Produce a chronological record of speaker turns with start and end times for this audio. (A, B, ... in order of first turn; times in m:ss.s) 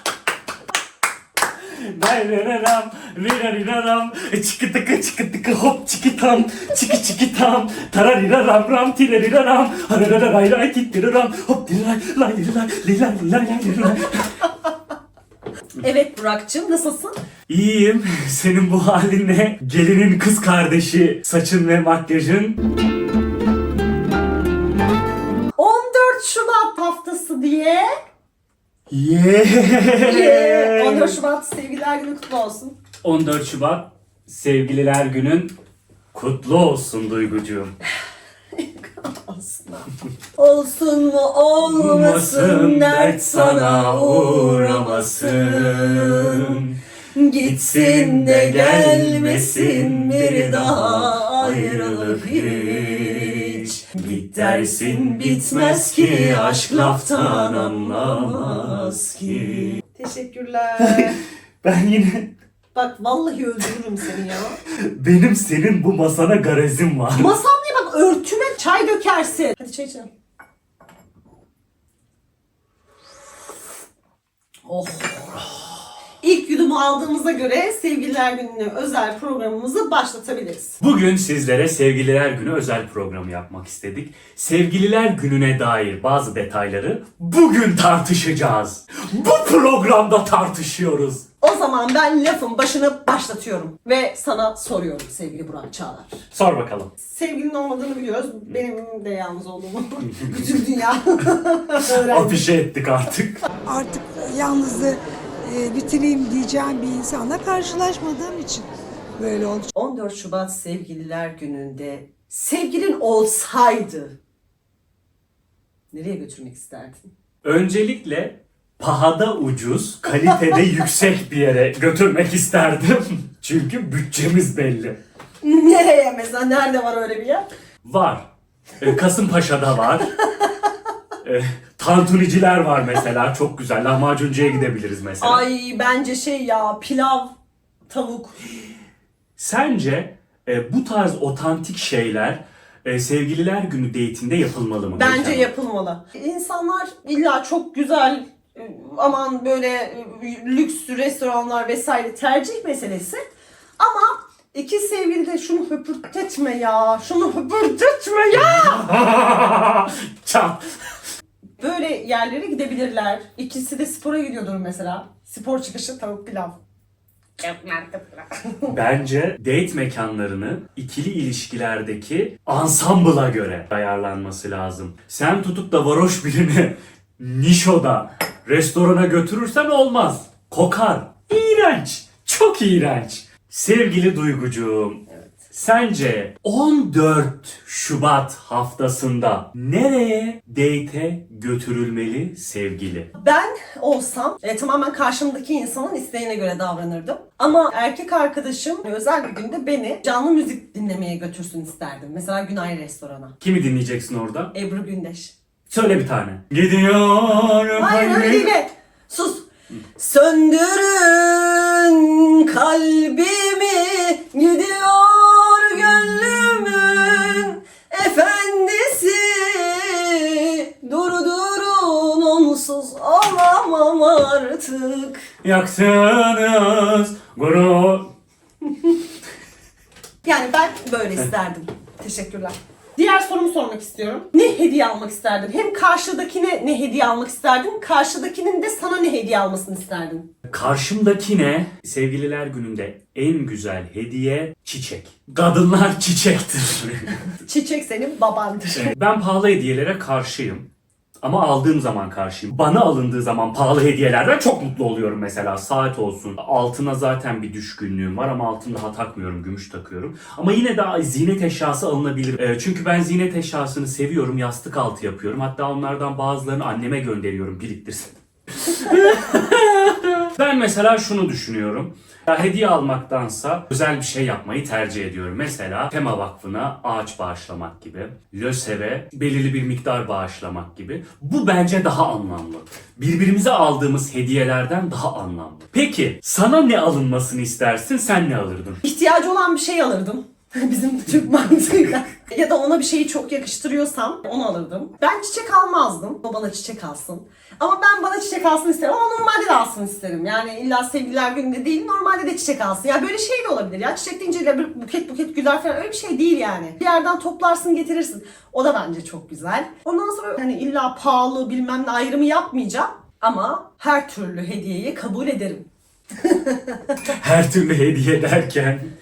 0:01.5-0:14.5 A
0:15.8-0:17.2 B
0:17.5-0:22.6 A
0:25.6-0:27.9 B
0:28.9-0:31.2 A
0:30.0-0:32.7 B
0:33.0-0:35.5 A
0:36.1-0:37.7 A
0:38.5-0:46.6 B
0:41.6-0:46.8 A
0:47.1-1:01.2 B
0:47.4-0:59.8 A
1:00.8-1:02.3 A
1:02.7-1:04.6 B
1:04.6-1:07.4 A
1:07.2-1:10.1 B
1:14.7-1:15.5 B
1:16.2-1:20.8 B
1:20.8-1:31.2 A
1:31.4-1:36.2 B
1:36.3-1:36.9 A
1:37.0-1:42.4 B
1:40.0-1:40.5 A
1:41.8-1:43.4 A
1:43.7-1:49.7 C
1:49.7-1:54.1 B
1:55.9-1:57.0 B
1:57.4-2:05.0 A
2:05.4-2:07.4 B
2:07.8-2:08.3 A
2:08.8-2:10.1 A
2:11.2-2:15.4 A
2:15.2-2:17.3 B
2:17.9-2:18.5 B
2:19.4-2:25.5 A
2:24.9-2:33.2 B
2:33.8-2:38.8 B
2:38.3-2:40.6 A
2:41.6-2:46.6 B
2:47.4-2:48.7 B
2:48.7-3:13.1 A
3:13.2-3:23.3 B
3:23.4-3:24.5 A
3:24.5-3:25.3 B
3:25.7-3:28.5 A
3:27.7-3:29.4 B
3:30.0-3:45.2 B
3:45.4-3:48.1 A
3:50.2-4:00.2 B
4:00.5-4:07.2 A
4:07.4-4:08.9 B
4:08.7-4:10.6 A
4:11.2-4:48.8 A
4:48.8-5:15.6 B
5:16.2-5:17.0 B
5:17.0-5:18.9 A